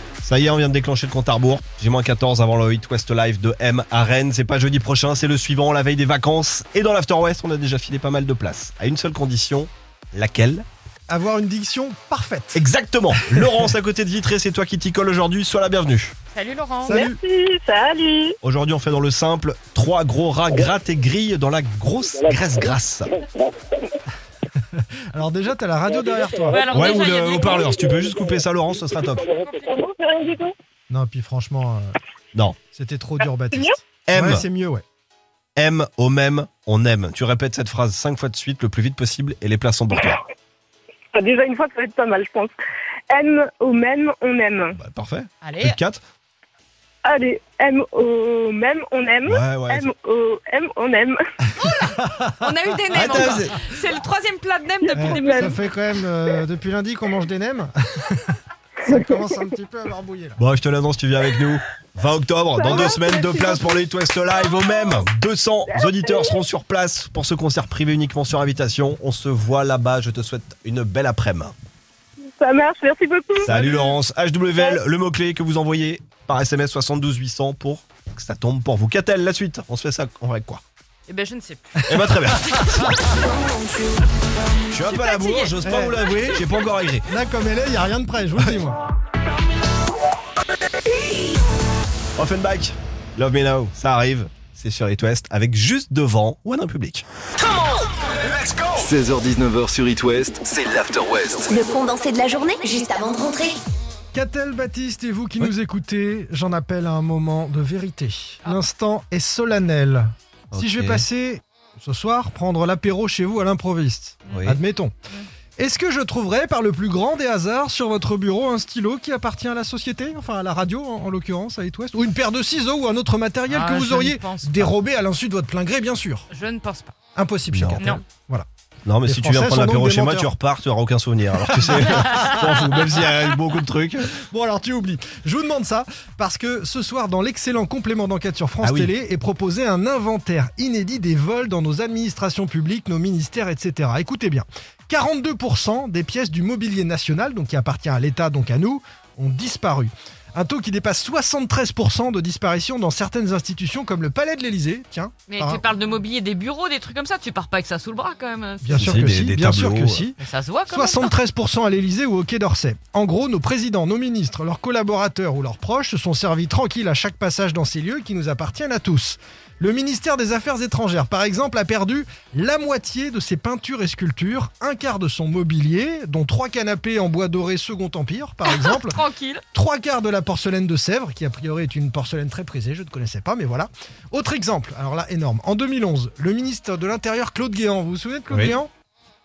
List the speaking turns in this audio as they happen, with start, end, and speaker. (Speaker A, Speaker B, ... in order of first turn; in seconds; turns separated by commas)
Speaker A: 0.2-10.7, Speaker B: 11.1-13.5, Speaker A: 12.6-16.1, Speaker C: 16.3-17.0, Speaker B: 16.9-17.2, Speaker D: 16.9-18.4, Speaker A: 18.4-23.2, Speaker B: 25.1-26.7, Speaker C: 26.5-27.7, Speaker A: 26.7-29.2, Speaker C: 29.3-29.6, Speaker D: 29.5-30.5, Speaker B: 30.9-32.0, Speaker B: 32.7-34.8, Speaker A: 34.1-34.4, Speaker A: 35.6-40.2, Speaker D: 41.1-42.5, Speaker D: 43.1-44.8, Speaker A: 44.8-46.0, Speaker C: 45.4-45.8, Speaker D: 47.0-51.2, Speaker A: 49.3-49.9, Speaker C: 51.6-55.6, Speaker A: 52.9-53.5, Speaker B: 53.0-53.5, Speaker D: 54.9-55.6, Speaker B: 55.0-58.4, Speaker D: 58.9-59.5, Speaker B: 58.9-60.4, Speaker A: 60.4-71.5, Speaker D: 62.5-65.1, Speaker D: 65.7-66.4, Speaker D: 72.4-73.9, Speaker A: 73.4-80.6, Speaker D: 74.5-74.8, Speaker C: 81.1-81.6, Speaker A: 81.9-83.0, Speaker C: 82.5-83.1, Speaker A: 84.7-87.1, Speaker C: 84.8-86.3, Speaker B: 85.6-86.4, Speaker B: 87.1-88.8, Speaker A: 92.2-97.0, Speaker E: 98.6-101.5, Speaker F: 101.5-103.6, Speaker B: 104.1-114.9, Speaker A: 110.5-111.0, Speaker A: 114.3-114.6, Speaker B: 115.6-126.3, Speaker C: 123.5-124.7, Speaker C: 126.3-126.9, Speaker B: 127.2-128.5, Speaker A: 127.5-127.8, Speaker A: 128.9-134.1, Speaker B: 129.0-130.3, Speaker B: 131.4-133.1, Speaker B: 134.2-155.6, Speaker A: 138.6-138.9, Speaker C: 155.3-158.9, Speaker B: 158.6-160.2, Speaker A: 158.8-160.1, Speaker C: 160.2-161.1, Speaker B: 160.7-179.0, Speaker C: 178.5-179.4, Speaker B: 179.5-188.7, Speaker A: 188.3-188.6